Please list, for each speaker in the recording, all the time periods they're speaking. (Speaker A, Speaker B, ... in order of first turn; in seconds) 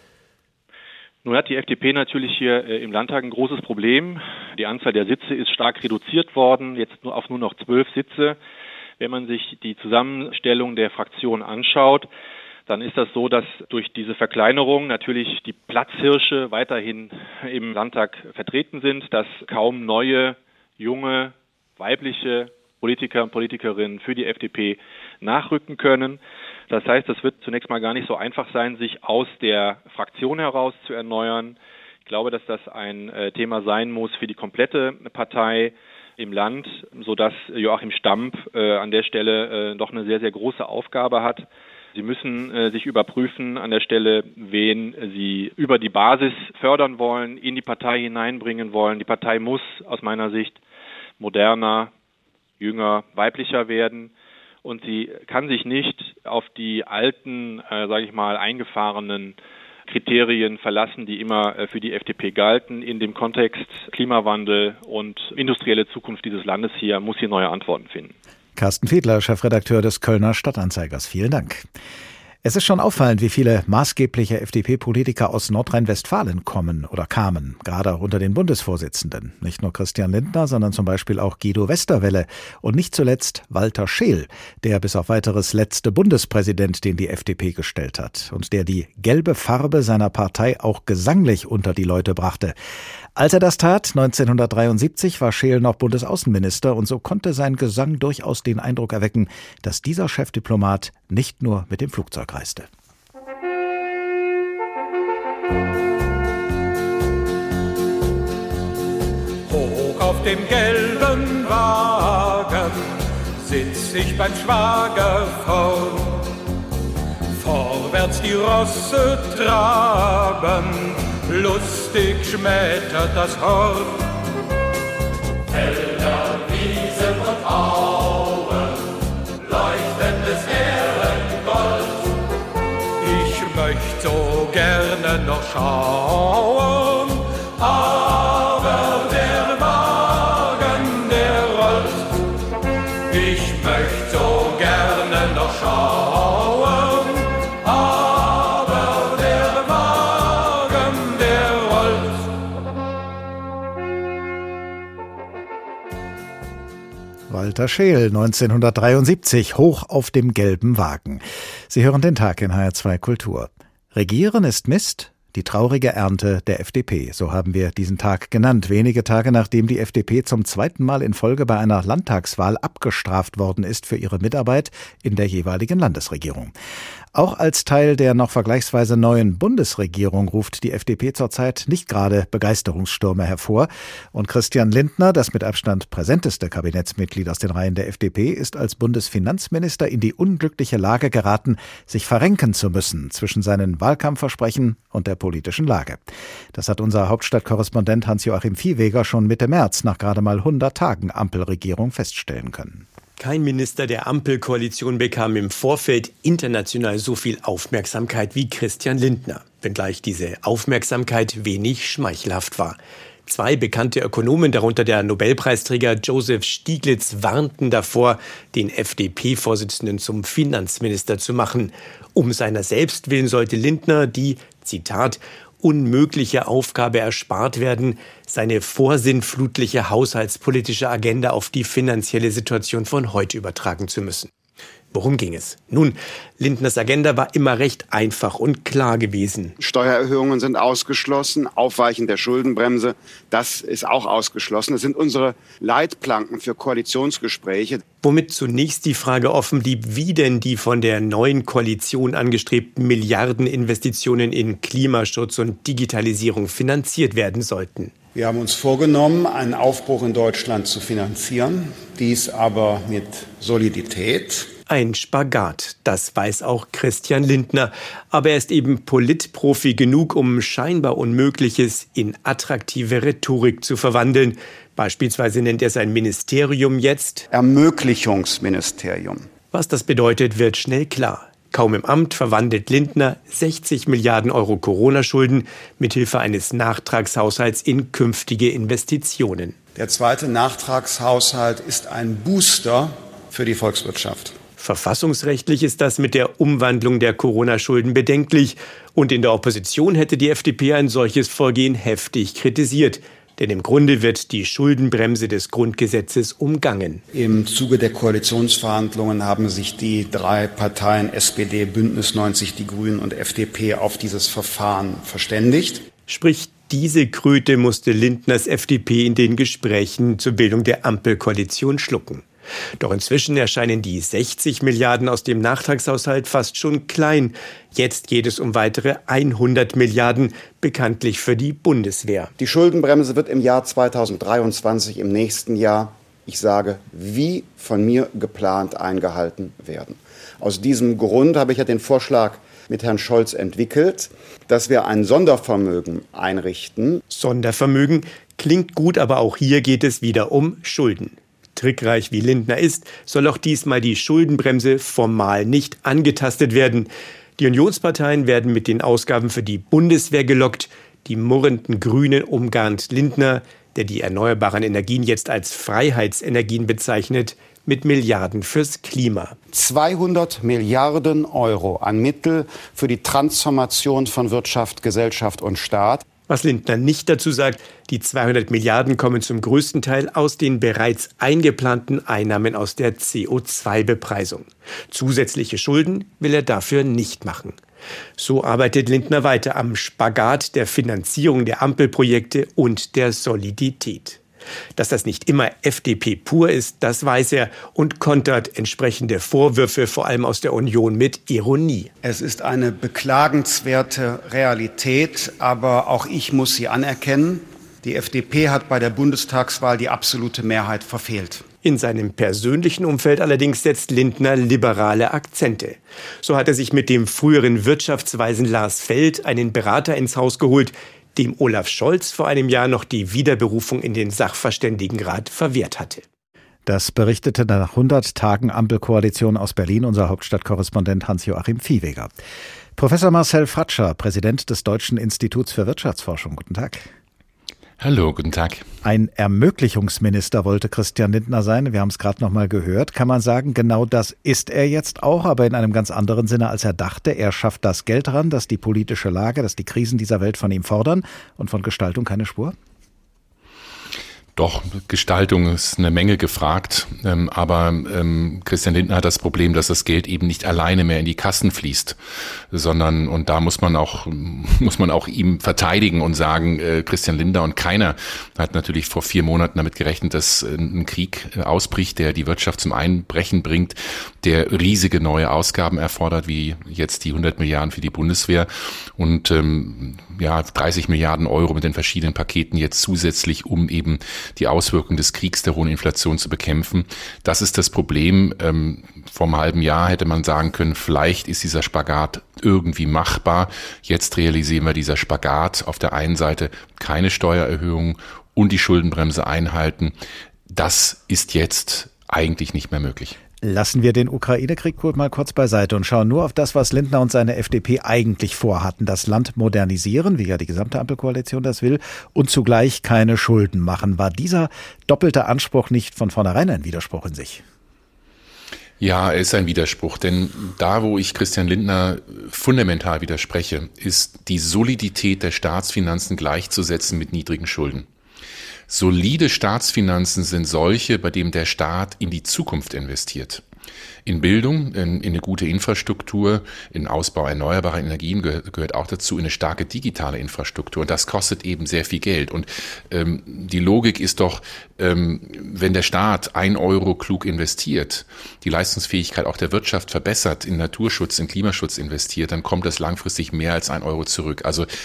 Speaker A: 1.2-8.4, 9.0-12.1, 12.7-26.2, 26.7-50.6, 51.2-51.9, 52.6-54.1, 54.6-59.4, 59.9-68.2
Speaker B: 68.6-71.7, 72.4-92.6, 93.2-102.7, 157.3-176.5, 177.1-202.9, 426.7-432.1, 432.8-436.9, 438.8-452.6, 503.4-517.4
Speaker C: 109.5-112.8, 113.4-116.2, 117.4-124.0, 126.5-127.5, 133.0-141.9, 143.1-147.0, 149.2-149.8, 150.5-151.9
Speaker D: 203.2-234.3, 234.9-239.6, 248.0-257.9, 264.7-277.3, 279.5-289.6, 294.6-307.0, 316.1-322.2, 322.8-332.3, 347.1-369.4, 376.3-387.6, 388.2-394.2, 394.8-401.9, 411.6-426.0
Speaker E: 239.6-247.8, 258.1-264.5, 277.3-279.3, 289.8-294.4, 307.1-315.9, 332.4-347.0, 369.5-376.1, 402.0-411.5
Speaker F: 437.8-438.7, 454.4-499.9, 500.5-503.2, 518.8-527.9, 528.7-533.4, 534.0-554.7